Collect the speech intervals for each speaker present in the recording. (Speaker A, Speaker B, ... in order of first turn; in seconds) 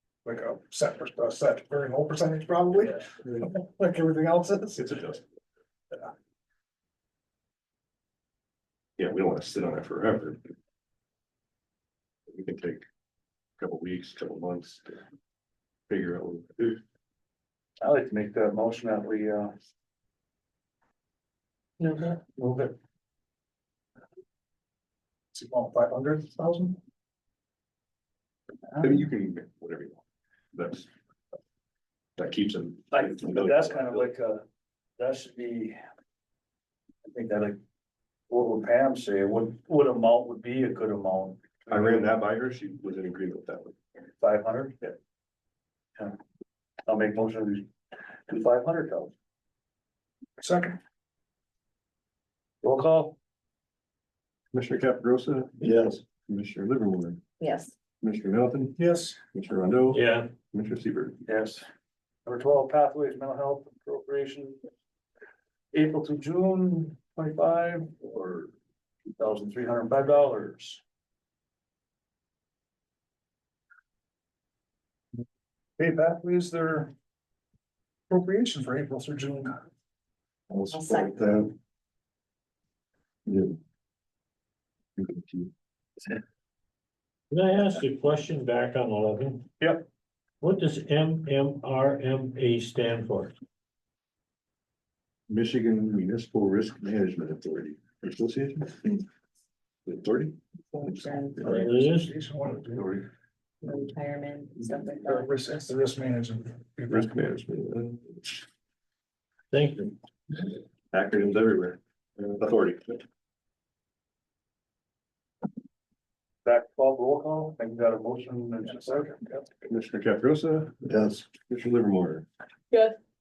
Speaker A: 0.2-5.1, 25.3-26.8, 50.4-50.8, 58.8-59.2, 75.8-76.9, 78.1-79.5, 101.4-102.9, 105.0-107.2, 118.6-119.3
Speaker B: 2.8-3.1, 17.8-19.6, 21.8-22.7, 28.7-29.0, 32.9-34.4, 35.0-35.8, 37.0-37.6, 38.3-42.0, 44.2-44.9, 46.9-47.7, 48.3-49.1, 52.6-53.2, 61.3-61.6, 62.2-64.6, 65.7-68.3, 69.2-70.8, 89.6-89.9, 102.8-103.0, 116.5-119.2
Speaker C: 4.8-5.2, 9.0-10.4, 12.3-12.8, 13.6-15.0, 15.9-16.8, 28.8-30.0, 30.5-30.9, 32.2-34.1, 41.7-43.8, 54.5-57.2, 58.0-61.2, 68.2-68.5, 85.0-85.5, 95.3-99.0, 99.9-101.6, 106.9-108.4, 110.9-113.0, 119.7-120.8, 121.5-122.3
Speaker D: 55.6-56.0, 80.5-81.5, 83.3-83.5, 120.8-121.3
Speaker E: 57.4-57.7, 80.7-81.1, 100.9-101.4, 103.6-105.3, 122.7-123.0
Speaker F: 59.9-60.3, 87.3-89.5, 90.4-93.3, 101.4-102.1, 109.5-110.0